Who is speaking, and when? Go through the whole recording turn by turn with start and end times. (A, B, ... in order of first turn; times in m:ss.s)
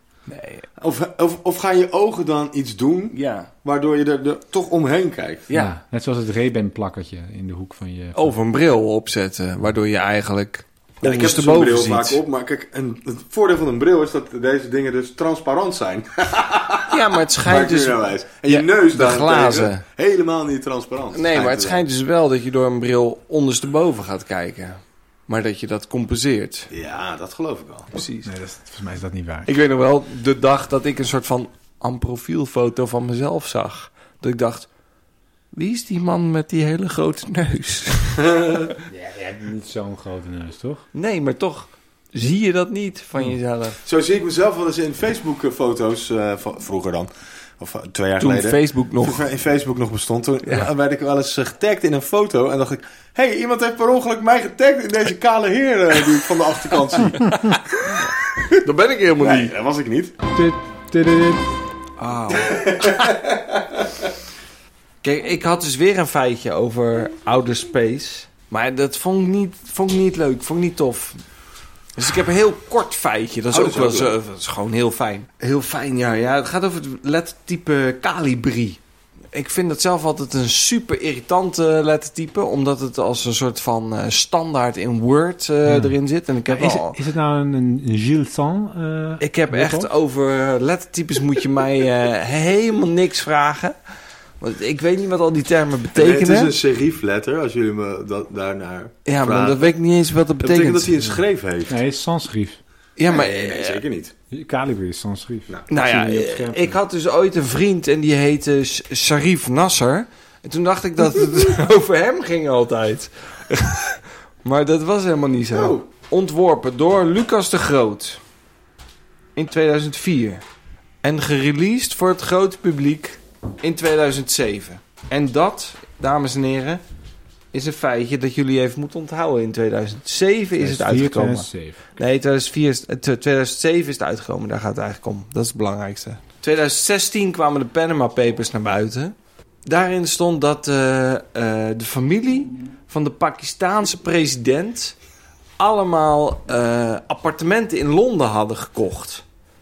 0:00.3-0:00.6 A
0:00.8-0:05.5 B
0:03.1-0:03.5 A
0:05.5-0:08.3 C
0:08.1-0:12.2 A
0:11.0-0:21.8 B
0:16.9-0:19.8 A
0:21.1-0:26.7 A
0:26.7-0:27.9 B
0:27.9-0:28.3 A
0:28.2-0:29.5 C
0:29.4-0:34.7 A
0:35.5-0:38.2 A
0:38.2-0:38.7 B
0:38.9-0:40.8 C
0:40.9-0:43.8 A
0:43.8-0:57.3 B
0:48.2-0:49.2 A
0:57.2-0:59.5 A
0:58.0-0:58.6 B
0:59.2-1:00.1 B
1:00.3-1:01.5 C
1:02.0-1:03.2 A
1:02.3-1:04.1 B
1:05.0-1:11.2 A
1:12.0-1:18.8 A
1:13.5-1:14.2 B
1:19.3-1:27.0 A
1:25.6-1:25.9 C
1:26.5-1:29.9 C
1:29.2-1:33.7 A
1:34.4-1:36.5 A
1:35.9-1:39.7 B
1:39.0-1:41.0 A
1:40.4-1:41.8 B
1:41.7-1:42.6 C
1:43.0-1:43.8 A
1:43.1-1:44.1 B
1:44.3-1:46.8 C
1:45.7-1:58.2 A
1:55.5-1:55.8 B
1:59.4-2:00.4 A
2:01.0-2:06.8 A
2:07.5-2:19.1 A
2:10.6-2:11.8 C
2:19.6-2:24.9 A
2:25.6-2:29.2 A